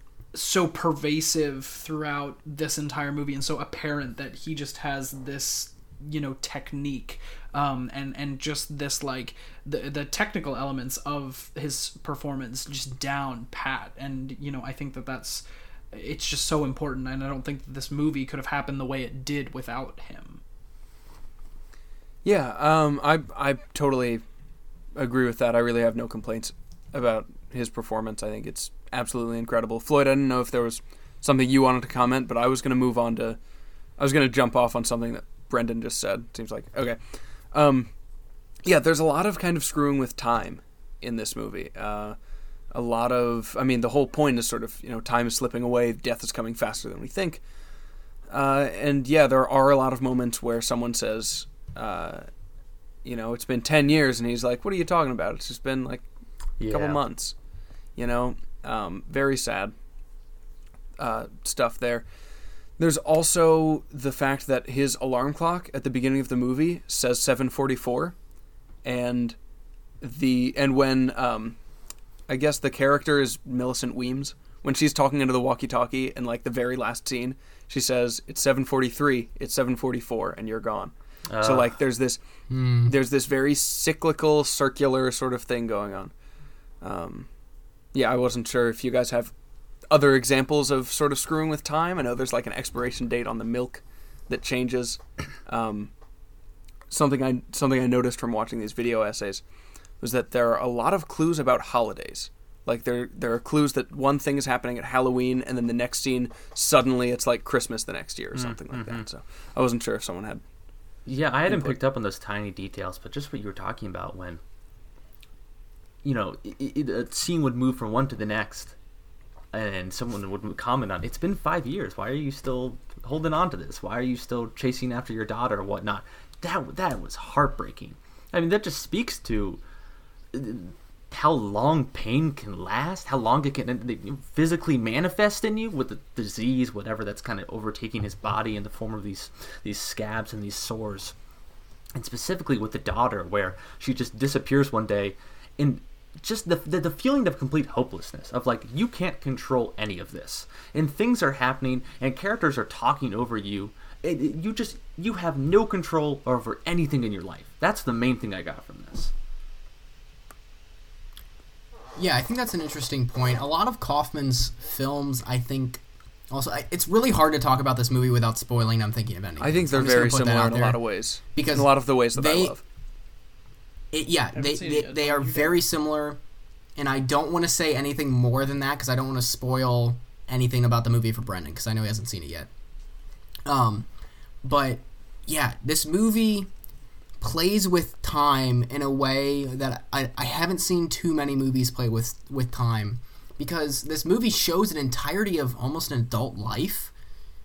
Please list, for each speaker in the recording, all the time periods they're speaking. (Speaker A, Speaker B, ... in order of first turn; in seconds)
Speaker A: 0.3-20.4, 174.3-175.6
Speaker B: 22.2-24.2, 24.9-33.4, 34.0-37.0, 37.5-37.9, 38.6-42.2, 42.7-47.4, 48.3-52.3, 53.0-56.0, 56.7-57.3, 58.0-59.7, 61.0-62.0, 62.8-68.1, 68.8-69.4, 70.0-71.6, 72.3-82.2, 82.9-86.1, 86.8-87.3, 87.9-89.3, 89.9-95.9, 96.9-99.4, 100.0-110.4, 111.5-111.8, 169.4-172.6
Speaker C: 56.6-57.0, 81.3-81.7, 108.3-109.0, 111.1-114.4, 116.0-118.8, 119.5-129.6, 130.3-141.1, 141.9-159.1
Speaker D: 82.5-82.9, 162.0-170.8, 171.3-172.6, 173.9-176.2, 176.8-182.5, 183.5-183.9, 184.4-186.5, 187.2-196.9